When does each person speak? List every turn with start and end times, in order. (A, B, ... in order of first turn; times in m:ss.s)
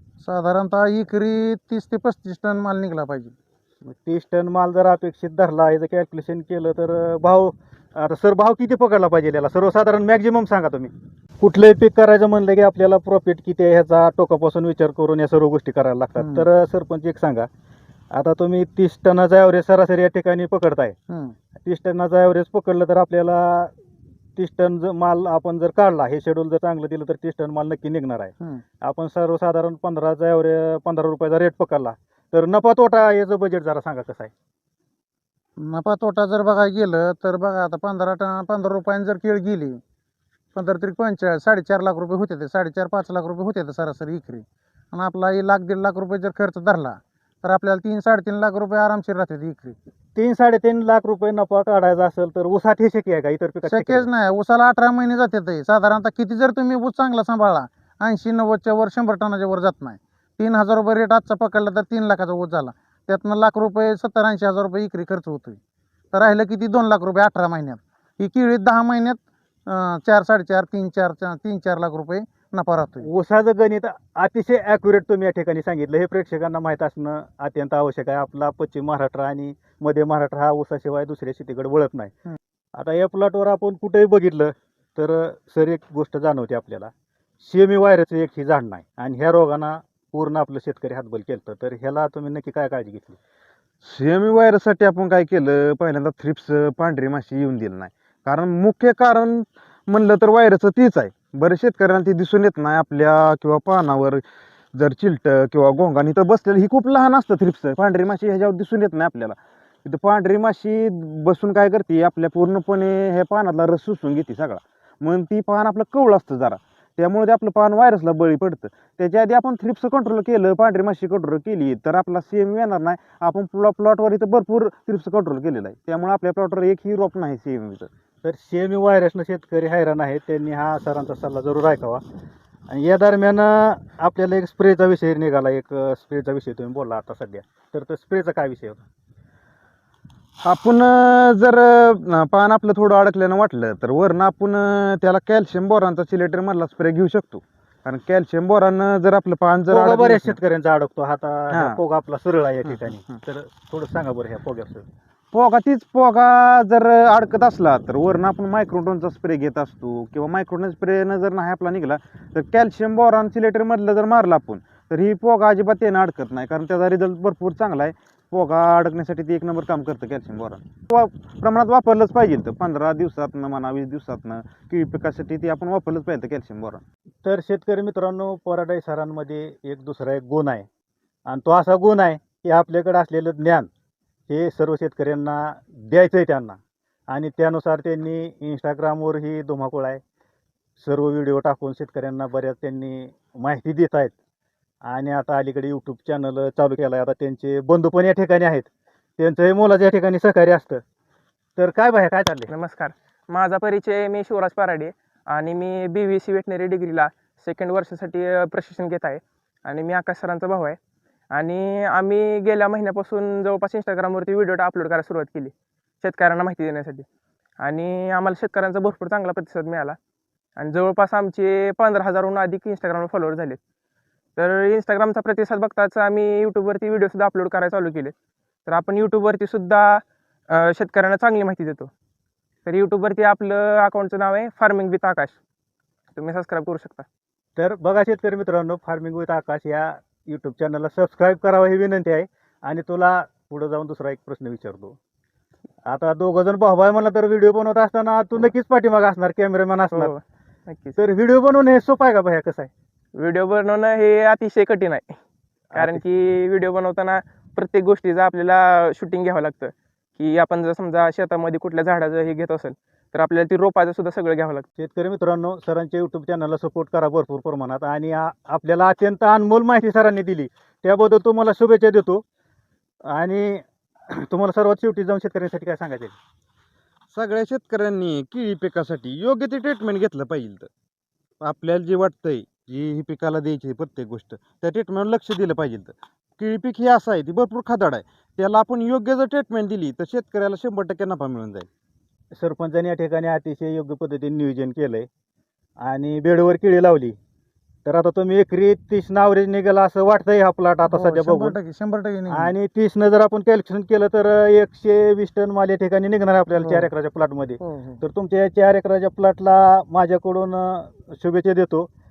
0:00.2-0:03.3 A
0:03.8-0:17.5 B
0:16.2-0:16.5 A
0:18.1-0:21.0 B
0:21.1-0:21.4 A
0:21.6-0:23.7 B
0:24.4-0:34.3 B
0:35.6-0:39.8 A
0:40.5-0:49.8 A
0:50.2-0:54.1 B
0:53.6-1:05.6 A
1:06.1-1:13.1 A
1:13.0-1:22.1 B
1:22.7-1:33.2 B
1:33.8-1:44.2 C
1:44.7-2:07.9 C
2:08.2-2:12.0 B
2:12.7-2:18.8 B
2:20.4-2:30.4 C
2:29.7-2:34.9 B
2:31.5-2:31.8 C
2:35.3-2:56.8 C
2:57.2-3:00.7 B
3:01.3-3:03.7 B
3:04.3-3:06.6 B
3:07.1-3:10.0 B
3:10.8-3:14.1 B
3:14.8-3:20.8 B
3:21.6-3:22.5 B
3:22.5-3:30.8 D
3:31.3-3:37.1 D
3:37.6-3:40.0 D
3:40.6-3:43.6 D
3:44.4-3:48.1 D
3:48.7-3:51.9 D
3:52.7-3:55.4 D
3:56.2-3:57.1 D
3:57.6-4:05.0 B
4:05.9-4:10.1 B
4:09.9-4:11.0 D
4:11.0-4:12.7 B
4:13.2-4:15.2 D
4:15.7-4:16.0 B
4:15.8-4:24.6 D
4:24.8-4:32.2 B
4:33.1-4:36.2 B
4:37.1-4:40.7 C
4:41.4-4:51.7 C
4:52.3-4:55.1 B
4:55.8-4:57.2 B
4:57.8-5:01.6 B
5:00.9-5:02.5 A
5:02.3-5:11.9 B
5:06.6-5:06.9 A
5:07.6-5:08.0 A